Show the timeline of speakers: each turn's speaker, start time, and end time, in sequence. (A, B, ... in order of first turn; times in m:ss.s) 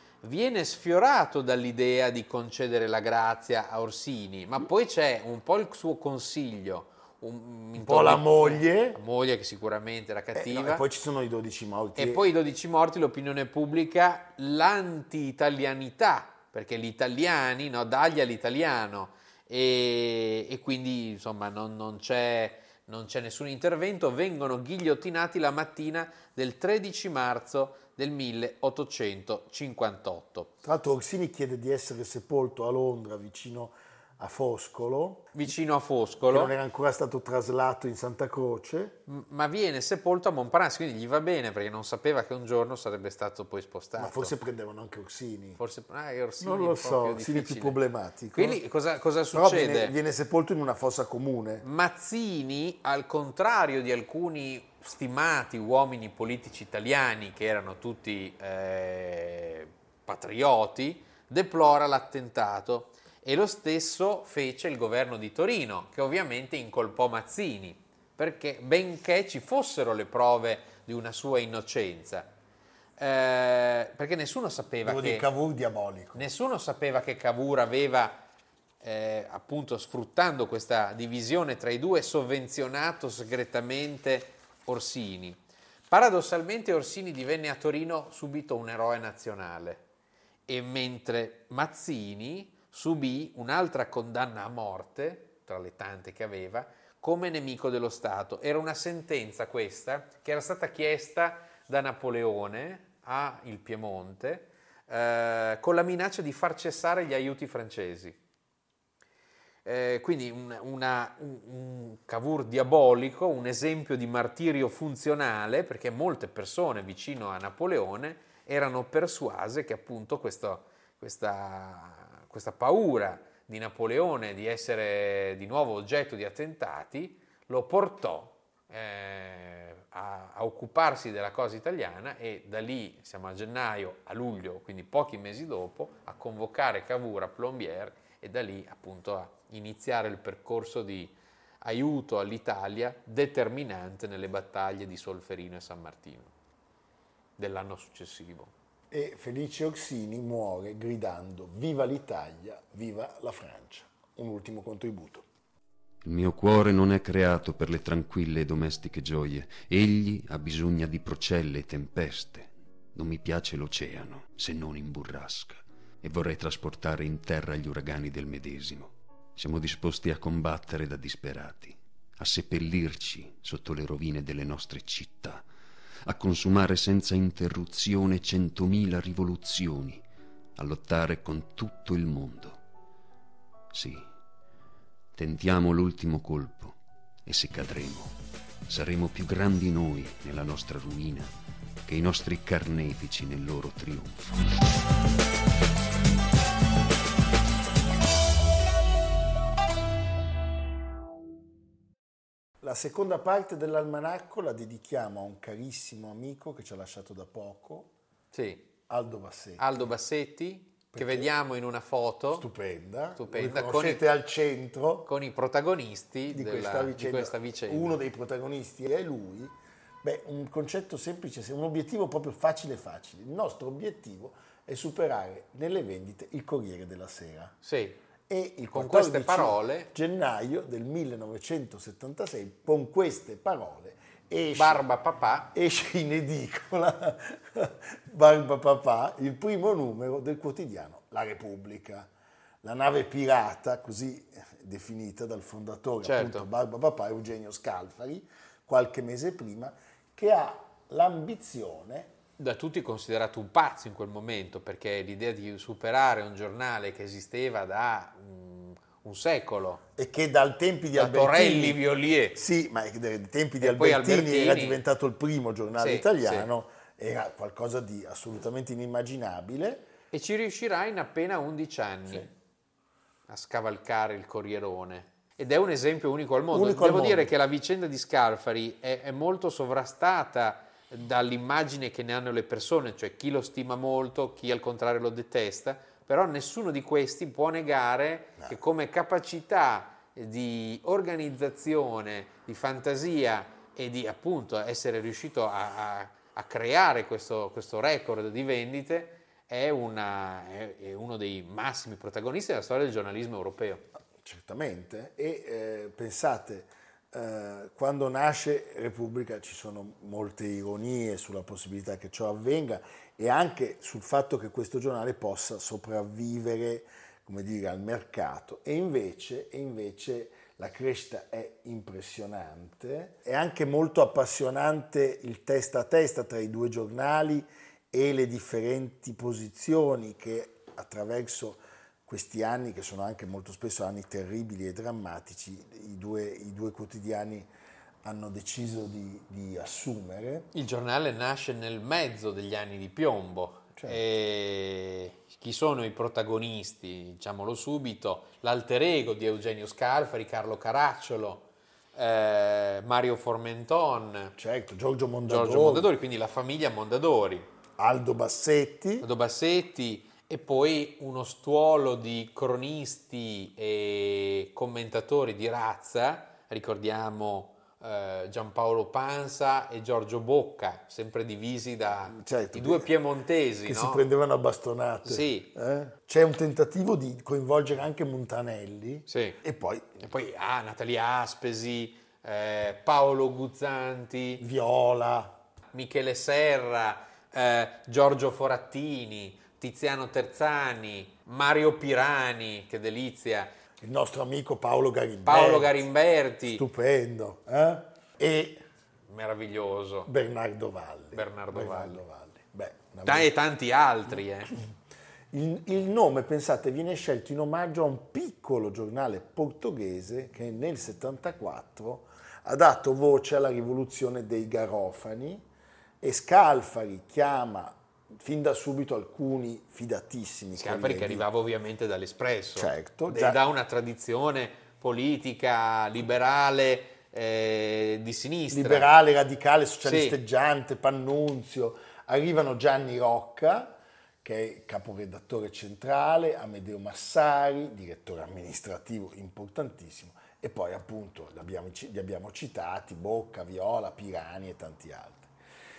0:00.2-0:10.8 A
0:07.8-0:09.0 B
0:10.3-0:12.2 B
0:12.0-0:30.5 A
0:30.6-0:35.4 B
0:35.3-0:36.6 A
0:36.3-0:39.0 B
0:39.1-0:44.3 A
0:44.0-0:45.6 B
0:45.6-0:47.8 A
0:46.4-0:48.6 B
0:48.3-0:50.0 A
0:49.3-0:51.6 B
0:51.6-1:12.3 A
1:13.0-1:15.3 A
1:14.8-1:16.2 B
1:16.2-1:18.2 A
1:18.8-1:29.8 A
1:30.5-1:48.2 A
1:49.6-2:26.3 A
2:27.4-2:28.5 A
2:28.9-2:35.2 B
2:36.0-2:55.4 C
2:56.0-3:00.0 C
3:00.6-3:02.6 C
3:03.7-3:04.1 C
3:05.1-3:08.2 C
3:08.7-3:11.3 C
3:11.9-3:14.4 C
3:22.6-3:27.9 B
3:28.3-3:28.7 A
3:28.9-3:29.9 B
3:29.6-3:32.5 A
3:30.9-3:31.3 B
3:32.3-3:35.1 B
3:33.2-3:34.0 A
3:35.1-3:38.0 A
3:36.3-3:47.6 B
3:47.6-3:48.0 A
3:48.3-3:54.8 B
3:48.7-3:49.9 A
3:54.5-3:55.5 A
3:55.5-4:02.1 B
4:02.6-4:12.1 B
4:06.0-4:06.5 A
4:12.4-4:19.8 A
4:20.0-4:21.8 B
4:21.0-4:22.4 A
4:22.4-4:29.9 B
4:23.6-4:24.8 A
4:25.8-4:26.5 A
4:30.1-4:32.3 A
4:33.3-5:03.9 A
4:36.5-4:37.3 B
5:04.2-5:37.5 B
5:38.0-5:40.5 B
5:40.5-5:54.3 A
5:54.4-5:55.9 B
5:55.3-5:57.5 A
5:57.8-5:59.1 B
5:59.0-6:14.0 A
6:12.1-6:12.9 B
6:13.6-6:20.0 B
6:15.0-6:15.5 A
6:19.1-6:19.4 A
6:20.0-6:24.4 A
6:24.4-6:25.4 B
6:25.7-6:33.5 A
6:33.8-6:35.9 B
6:35.2-6:36.6 A
6:36.5-6:38.6 B
6:39.1-6:40.1 A
6:40.1-6:43.3 B
6:41.1-6:42.0 A
6:43.0-6:44.5 A
6:45.3-6:55.4 B
6:56.0-7:01.3 B
7:00.6-7:08.9 A
7:02.6-7:03.4 B
7:08.5-7:25.3 B
7:09.8-7:10.2 A